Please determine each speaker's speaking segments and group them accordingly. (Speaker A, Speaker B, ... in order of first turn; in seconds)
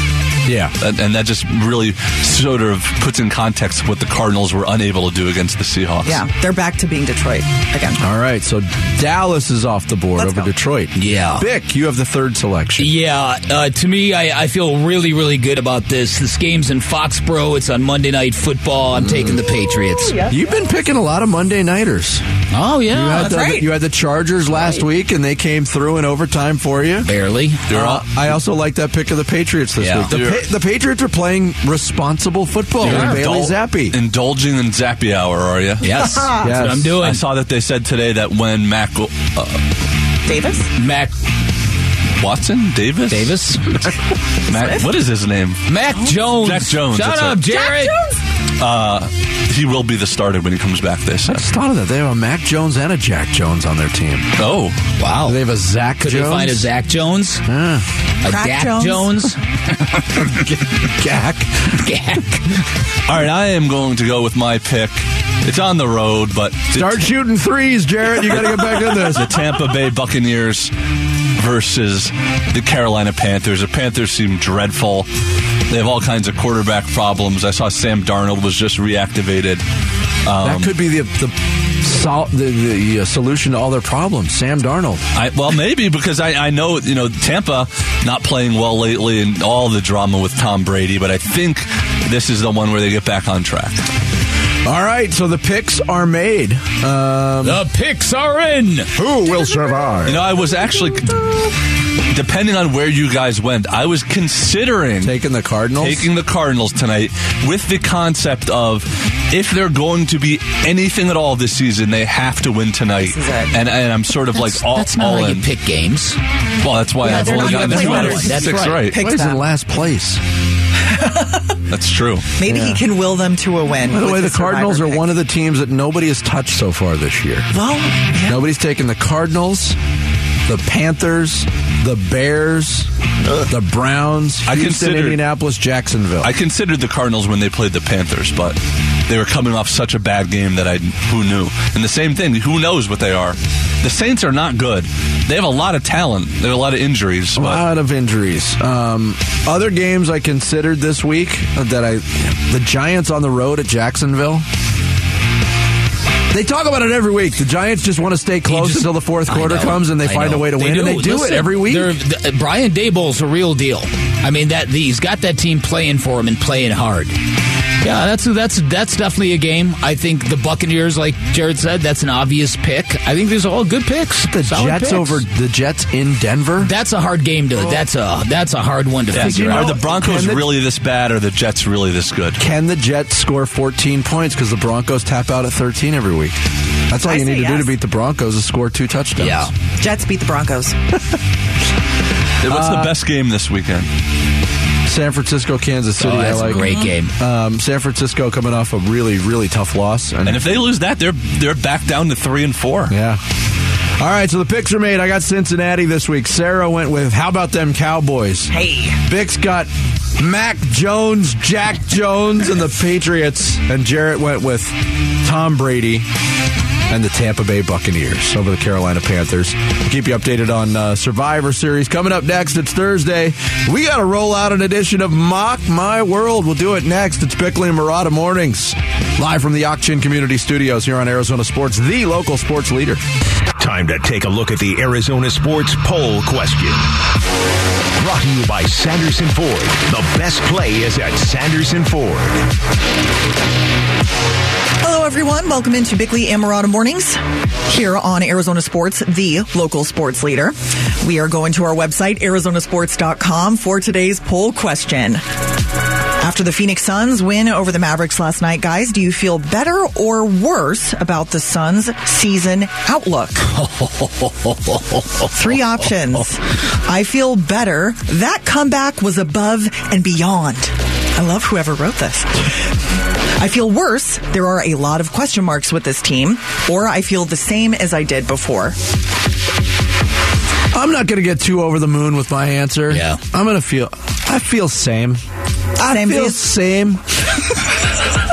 Speaker A: 0.5-0.7, 8.0-12.9, 18.9-19.4, 20.3-22.2, 22.9-27.1, 27.7-34.0, 36.4-37.0, 51.3-54.4, 55.2-56.7, 57.5-57.9, 60.3-61.8, 66.7-69.4, 80.4-85.0, 94.7-97.6, 99.0-100.3, 105.0-106.1, 117.4-120.2, 122.5-122.8, 123.9-127.5, 128.3-129.8, 130.5-132.9, 133.5-136.3, 147.4-154.5, 156.3-161.9, 174.3-176.7, 179.2-180.6, 182.4-186.4, 186.9-189.5, 192.4-193.0, 194.9-200.5, 202.9-203.2, 204.0-216.1, 216.9-233.0, 280.7-285.2, 285.8-287.0
Speaker B: 0.8-6.2, 27.7-28.1, 30.1-30.5, 32.8-35.9, 37.0-39.6, 42.2-43.4, 44.5-45.6, 46.3-47.5, 48.6-51.5, 54.4-54.8, 63.1-67.1, 68.3-70.7, 71.4-75.1, 75.7-79.6, 80.2-80.8, 85.2-93.8, 100.0-101.2, 102.1-105.1, 105.8-115.5, 116.6-119.0, 121.7-122.3, 134.5-135.2, 136.2-147.6, 179.1-182.4, 192.4-193.9, 200.2-202.9
Speaker C: 6.0-8.0, 10.2-10.5, 19.5-20.7, 23.2-23.7, 35.8-36.5, 40.3-40.7, 44.5-44.9, 47.5-48.2, 58.2-59.2, 99.3-99.8, 100.9-101.4, 113.0-113.6, 117.0-119.4, 120.8-121.6, 122.4-125.1, 127.5-128.4, 187.0-187.7, 189.8-190.8, 208.5-209.0, 244.8-255.2, 256.2-263.5, 265.3-272.7, 273.4-278.8, 285.8-286.4
Speaker D: 10.9-11.5, 12.8-20.2, 22.5-23.3, 27.0-27.7, 29.8-30.1, 32.8-33.3, 35.8-37.2, 40.8-41.1, 43.1-43.9, 45.7-48.0, 55.0-55.4, 56.0-57.4, 58.2-60.6, 61.7-62.6, 97.4-98.9, 114.3-116.2, 117.0-118.9, 158.5-167.2, 167.8-175.2, 176.6-179.8, 189.2-189.5, 196.0-197.1, 263.5-265.3, 282.9-283.2
Speaker E: 233.6-236.9, 238.0-242.4